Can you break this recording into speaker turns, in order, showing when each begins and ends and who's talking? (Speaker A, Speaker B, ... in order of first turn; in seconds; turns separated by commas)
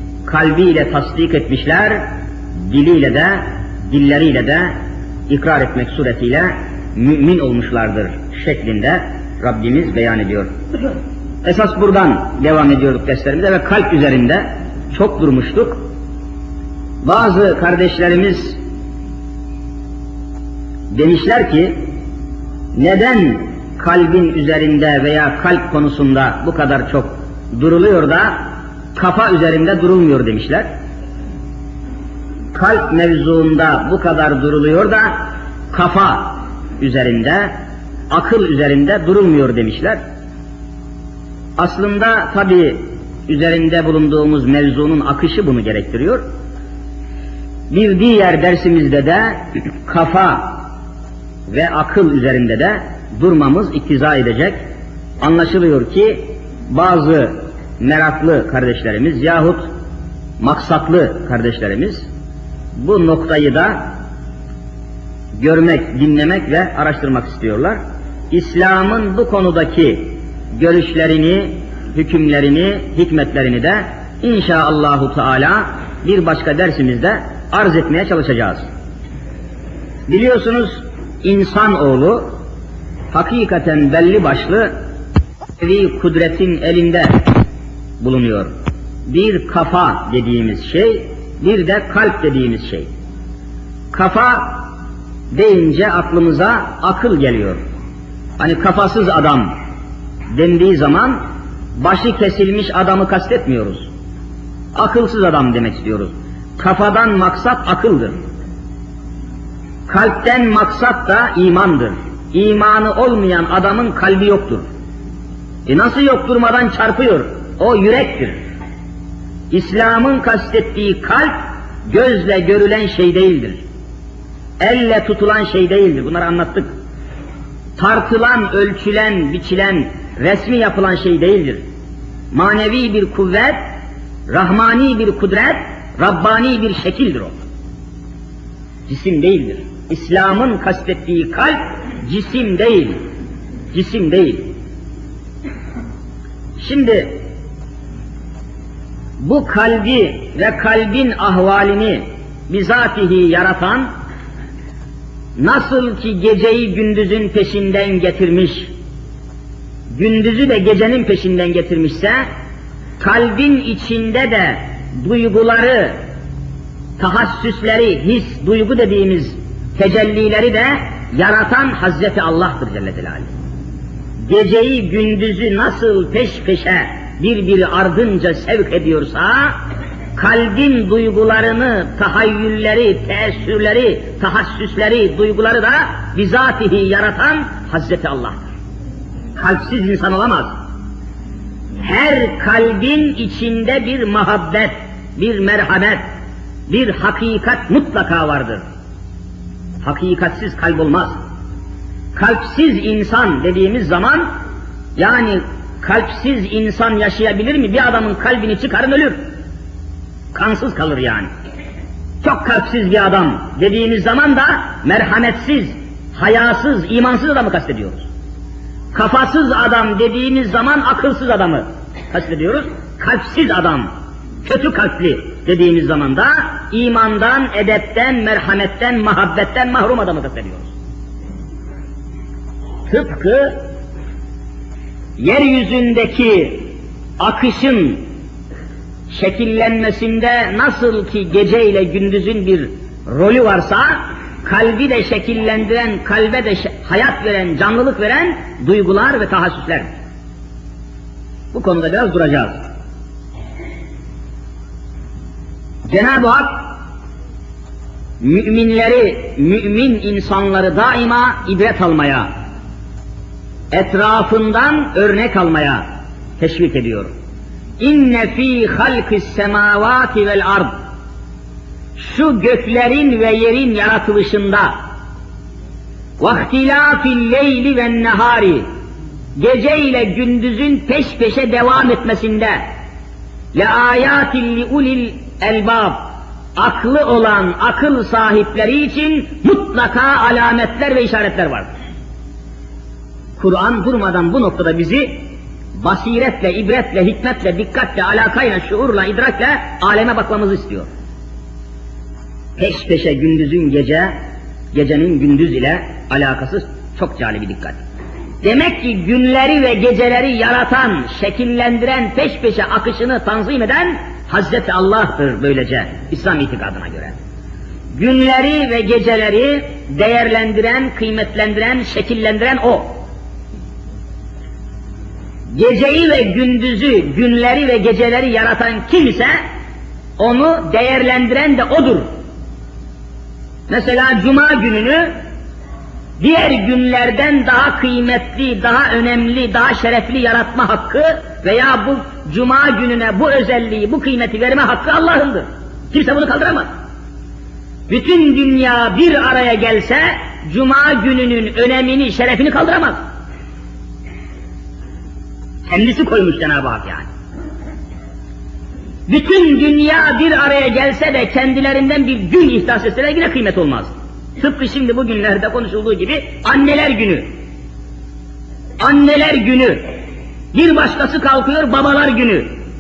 Speaker A: 0.2-2.1, Speaker A: 2.7-4.8, Speaker A: 5.3-10.5, Speaker A: 11.4-15.8, Speaker A: 17.0-18.6, Speaker A: 20.9-21.8, Speaker A: 22.8-30.7, Speaker A: 32.5-37.5, Speaker A: 38.1-40.0, Speaker A: 41.6-46.2, Speaker A: 47.7-50.6, Speaker A: 51.5-54.6, Speaker A: 55.2-59.6, Speaker A: 60.4-62.1, Speaker A: 62.8-63.9, Speaker A: 65.4-67.8, Speaker A: 68.3-78.7, Speaker A: 80.1-82.3, Speaker A: 83.1-84.7, Speaker A: 85.6-87.1, Speaker A: 88.0-88.5, Speaker A: 89.1-92.9, Speaker A: 93.9-94.7, Speaker A: 95.3-97.6, Speaker A: 98.4-99.5, Speaker A: 100.3-101.2, Speaker A: 101.8-103.9, Speaker A: 104.7-108.2, Speaker A: 109.9-114.7, Speaker A: 115.7-118.4, Speaker A: 119.5-121.3, Speaker A: 121.9-123.6, Speaker A: 124.6-126.7, Speaker A: 127.8-131.6, Speaker A: 132.3-133.6, Speaker A: 134.3-137.3, Speaker A: 138.9-143.0, Speaker A: 143.7-144.5, Speaker A: 146.6-147.2, Speaker A: 149.2-153.9, Speaker A: 155.4-158.7, Speaker A: 159.9-162.2, Speaker A: 163.0-166.0, Speaker A: 167.0-173.3, Speaker A: 174.3-179.5, Speaker A: 180.2-188.4, Speaker A: 189.3-190.5, Speaker A: 191.8-196.0, Speaker A: 196.7-198.6, Speaker A: 199.8-201.2, Speaker A: 202.2-204.3, Speaker A: 205.0-209.2, Speaker A: 210.3-211.3, Speaker A: 212.2-218.1, Speaker A: 218.9-223.9, Speaker A: 224.4-230.7, Speaker A: 232.9-233.5, Speaker A: 235.2-238.0, Speaker A: 239.1-249.9, Speaker A: 251.5-252.6, Speaker A: 255.9-256.7, Speaker A: 258.2-262.3, Speaker A: 263.7-265.8, Speaker A: 266.4-267.1, Speaker A: 267.8-270.7, Speaker A: 272.0-274.7, Speaker A: 276.2-278.6, Speaker A: 279.4-282.6, Speaker A: 283.5-286.0, Speaker A: 286.6-291.7, Speaker A: 293.4-295.2, Speaker A: 295.8-300.9, Speaker A: 302.6-304.1, Speaker A: 304.7-307.8, Speaker A: 308.4-317.1, Speaker A: 317.9-322.9, Speaker A: 325.5-329.4, Speaker A: 330.2-332.1, Speaker A: 333.7-335.1, Speaker A: 336.2-346.7, Speaker A: 347.9-353.0, Speaker A: 355.7-357.1, Speaker A: 359.1-367.2, Speaker A: 368.8-369.8, Speaker A: 370.5-372.5